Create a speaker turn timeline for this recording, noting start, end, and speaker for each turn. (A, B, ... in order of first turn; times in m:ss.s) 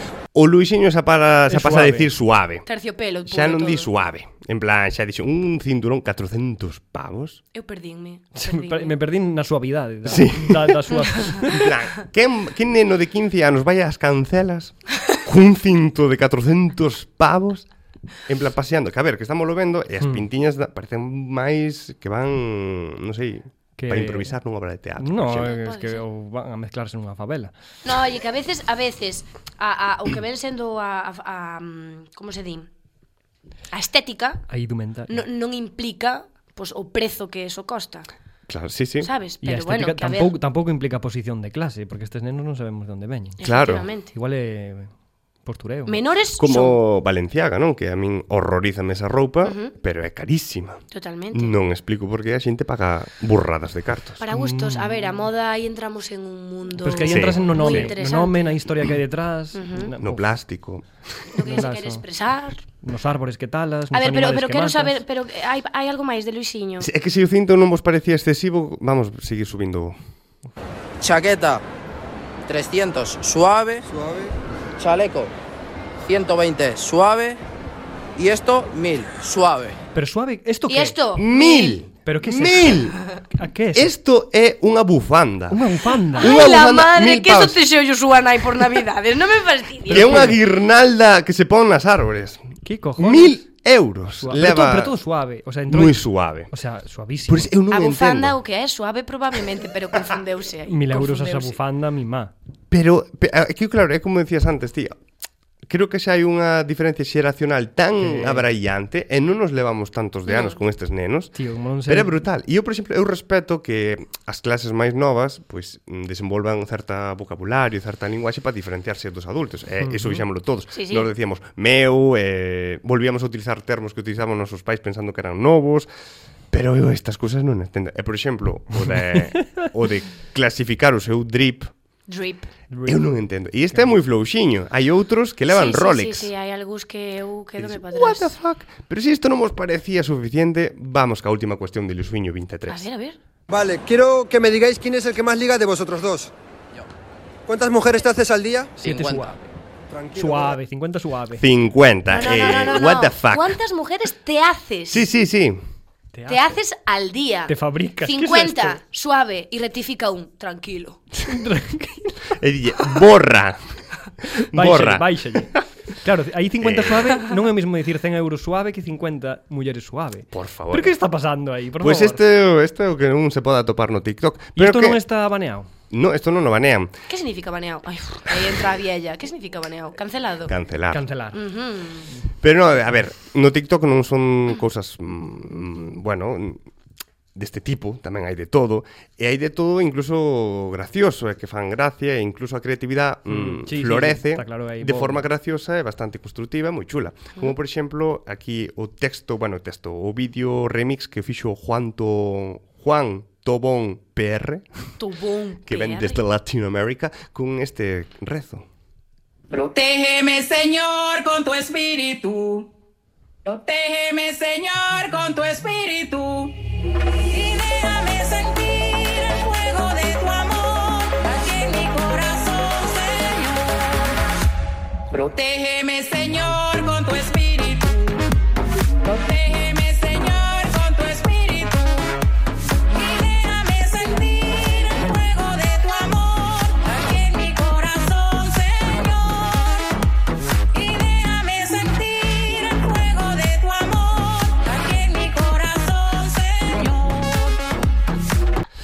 0:00.3-0:02.6 A
0:01.5-0:02.1 B
0:02.6-0:03.9 C
0:03.3-0:07.4 A
0:07.5-0:08.9 C
0:08.3-0:11.6 B
0:10.0-0:10.8 A
0:11.5-0:17.6 A
0:18.2-0:25.5 A
0:23.8-0:24.3 B
0:25.0-0:27.5 B
0:25.4-0:26.0 C
0:27.8-0:32.7 C
0:33.7-0:34.5 C
0:34.5-0:35.2 B
0:35.1-0:38.1 C
0:38.5-0:39.1 A
0:39.0-0:40.4 C
0:39.4-0:43.4 B
0:43.4-0:44.1 C
0:43.4-0:43.9 A
0:44.1-0:44.9 B
0:45.4-0:46.0 B
0:45.9-0:46.8 C
0:46.4-0:54.2 A
0:49.4-0:49.7 C
0:50.9-0:51.5 C
0:54.2-0:58.4 C
0:54.3-0:55.1 B
0:56.8-1:00.2 B
0:57.0-0:57.9 A
0:59.5-0:59.9 C
1:00.0-1:01.2 A
1:01.3-1:02.6 C
1:01.4-1:02.0 B
1:02.8-1:05.0 B
1:03.9-1:06.9 C
1:06.8-1:10.0 A
1:11.0-1:11.6 D
1:12.5-1:13.8 D
1:13.9-1:14.3 E
1:14.8-1:15.3 D
1:16.1-1:17.4 D
1:18.2-1:19.8 D
1:19.9-1:20.9 B
1:20.7-1:21.8 C
1:21.2-1:23.0 A
1:22.0-1:23.9 B
1:23.7-1:27.6 A
1:25.5-1:26.4 B
1:26.2-1:30.3 C
1:29.9-1:30.4 B
1:29.9-1:34.9 A
1:32.6-1:33.4 B
1:34.2-1:37.5 B
1:35.7-1:36.5 A
1:37.3-1:38.4 A
1:37.7-1:41.6 C
1:40.7-1:42.3 B
1:42.7-1:44.9 A
1:45.7-2:05.9 A
1:48.0-1:48.4 B
1:50.3-1:50.6 C
1:51.3-1:52.2 B
1:59.8-2:00.2 B
2:00.7-2:01.1 C
2:06.5-2:11.7 A
2:09.2-2:09.6 B
2:12.1-2:12.5 C
2:12.7-2:13.1 B
2:12.8-2:16.3 A
2:15.5-2:18.3 C
2:17.6-2:22.9 A
2:22.7-2:23.2 C
2:23.5-2:26.3 E
2:27.5-2:28.7 E
2:28.8-2:29.4 B
2:28.8-2:29.4 D
2:29.9-2:30.6 E
2:30.1-2:31.4 B
2:31.4-2:33.6 A
2:32.1-2:35.0 C
2:34.9-2:35.6 A
2:36.1-2:36.6 B
2:36.3-2:41.0 C
2:37.5-2:38.8 B
2:41.2-2:42.3 B
2:42.3-2:45.5 A
2:44.5-2:52.2 B
2:46.6-2:47.2 A
2:50.3-2:51.0 A
2:51.8-2:55.0 A
2:54.6-2:55.7 B
2:55.9-2:56.9 A
2:57.1-3:00.5 C
3:00.5-3:01.0 A
3:00.9-3:01.4 B
3:01.3-3:02.1 C
3:02.4-3:06.6 A
3:07.3-3:24.9 A
3:13.3-3:15.2 B
3:25.0-3:26.2 C
3:25.7-3:28.7 A
3:29.5-3:32.7 F
3:33.4-3:36.6 F
3:37.3-3:44.2 F
3:45.1-3:48.2 F
3:49.0-3:52.1 F
3:52.9-3:59.9 F
4:00.7-4:07.6 F